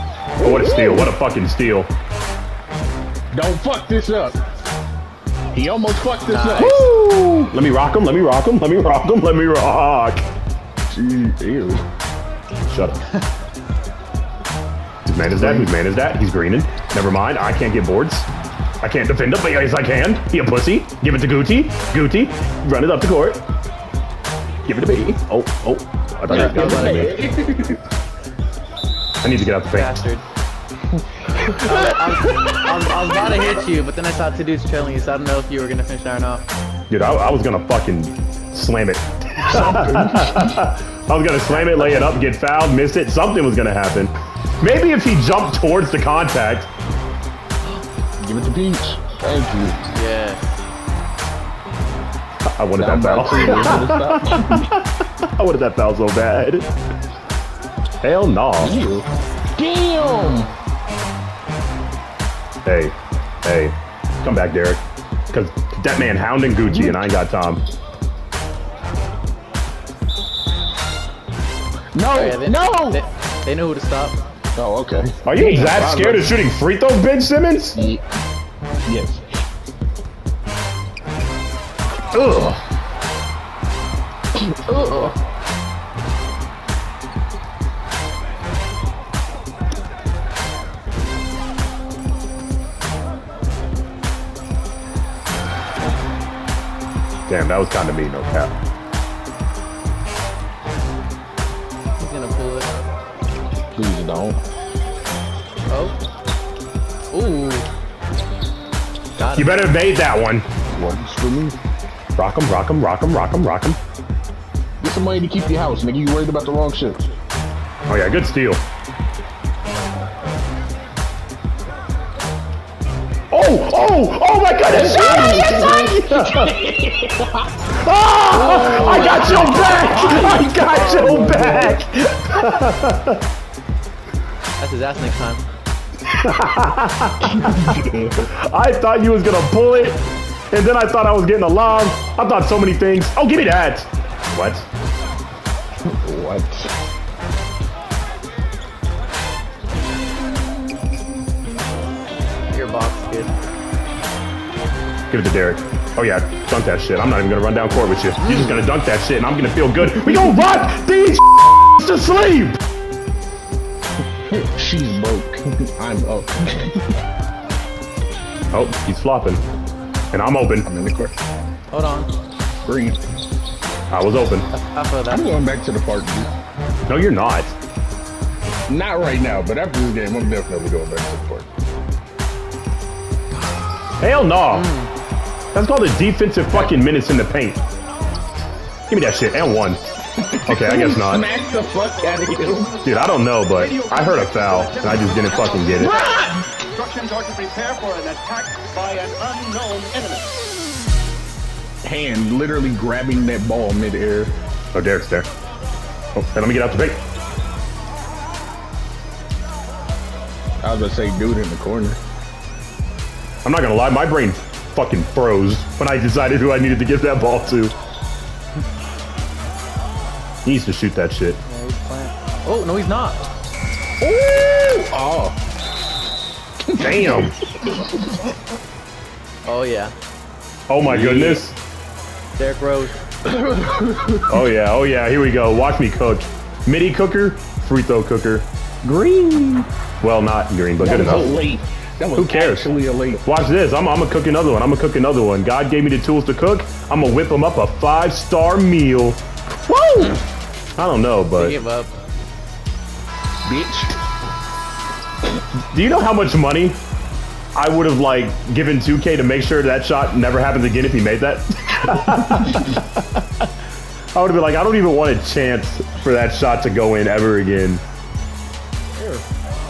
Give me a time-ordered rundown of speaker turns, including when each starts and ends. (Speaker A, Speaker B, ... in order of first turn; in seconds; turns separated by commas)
Speaker A: 0.4-1.9, Speaker B: 0.4-1.1, Speaker B: 3.3-4.3, Speaker B: 5.5-6.9, Speaker C: 6.3-6.9, Speaker A: 6.6-10.2, Speaker B: 10.9-11.8, Speaker A: 12.6-13.0, Speaker A: 15.1-18.3, Speaker B: 15.4-15.7, Speaker A: 18.8-23.4, Speaker A: 24.6-27.2, Speaker C: 26.3-27.2, Speaker B: 26.3-27.8, Speaker A: 29.2-30.0, Speaker C: 29.7-30.2, Speaker C: 31.4-36.4, Speaker B: 31.5-32.4, Speaker A: 36.9-46.7, Speaker B: 39.5-40.6, Speaker C: 41.5-42.1, Speaker B: 48.2-49.8, Speaker C: 49.9-50.4, Speaker A: 52.5-56.7, Speaker B: 52.8-54.6, Speaker A: 58.0-58.8, Speaker B: 58.6-60.5, Speaker C: 60.0-60.5, Speaker A: 62.6-67.6, Speaker B: 66.7-67.1, Speaker B: 71.9-73.0, Speaker C: 72.1-74.2, Speaker B: 74.5-76.3, Speaker A: 75.2-77.8, Speaker B: 77.8-78.0, Speaker B: 78.8-79.2, Speaker A: 82.1-82.6, Speaker B: 84.4-85.1, Speaker C: 84.7-85.2, Speaker A: 97.3-98.5, Speaker C: 102.0-102.8, Speaker B: 103.7-104.4, Speaker C: 105.7-106.0, Speaker C: 107.1-107.7, Speaker C: 109.2-109.6, Speaker A: 109.3-110.5, Speaker B: 110.7-111.6, Speaker A: 112.2-113.8, Speaker B: 114.8-117.0, Speaker A: 117.9-118.6, Speaker A: 123.3-126.6, Speaker B: 124.7-127.5, Speaker A: 127.7-133.2, Speaker C: 128.3-130.1, Speaker B: 128.6-131.8, Speaker C: 134.6-135.4, Speaker A: 136.2-140.0, Speaker B: 137.4-138.2, Speaker A: 140.5-144.7, Speaker B: 145.8-146.7, Speaker C: 152.5-153.3, Speaker A: 155.1-162.6, Speaker C: 158.2-158.6, Speaker B: 164.3-166.8, Speaker A: 168.5-169.4, Speaker A: 170.1-170.7, Speaker B: 170.6-171.2, Speaker C: 171.7-172.1, Speaker B: 172.6-173.0, Speaker A: 173.9-174.5, Speaker C: 174.5-175.3, Speaker B: 175.1-176.3, Speaker A: 176.8-177.6, Speaker B: 178.7-181.5, Speaker A: 184.0-184.7, Speaker C: 184.5-184.9, Speaker A: 185.5-187.6, Speaker A: 188.9-189.8, Speaker B: 190.2-192.8, Speaker A: 190.5-191.3, Speaker A: 192.8-196.0, Speaker B: 195.8-196.5, Speaker D: 196.8-200.3, Speaker B: 201.8-204.3, Speaker A: 204.7-205.3, Speaker A: 206.1-207.0, Speaker B: 210.6-212.0, Speaker A: 213.4-217.7, Speaker A: 220.4-221.4, Speaker C: 221.4-223.2, Speaker B: 224.0-225.4, Speaker B: 226.7-227.9, Speaker A: 226.8-227.3, Speaker C: 229.4-229.9, Speaker A: 230.7-231.6, Speaker B: 230.8-231.4, Speaker C: 232.3-232.9, Speaker B: 233.2-234.3, Speaker A: 234.3-238.5, Speaker B: 238.8-239.7, Speaker A: 240.0-241.4, Speaker B: 240.8-243.2, Speaker A: 242.2-250.2, Speaker A: 250.8-251.6, Speaker C: 251.3-251.9, Speaker B: 253.4-253.9, Speaker A: 255.7-256.8, Speaker A: 257.5-263.5, Speaker A: 264.1-267.8, Speaker B: 269.0-269.2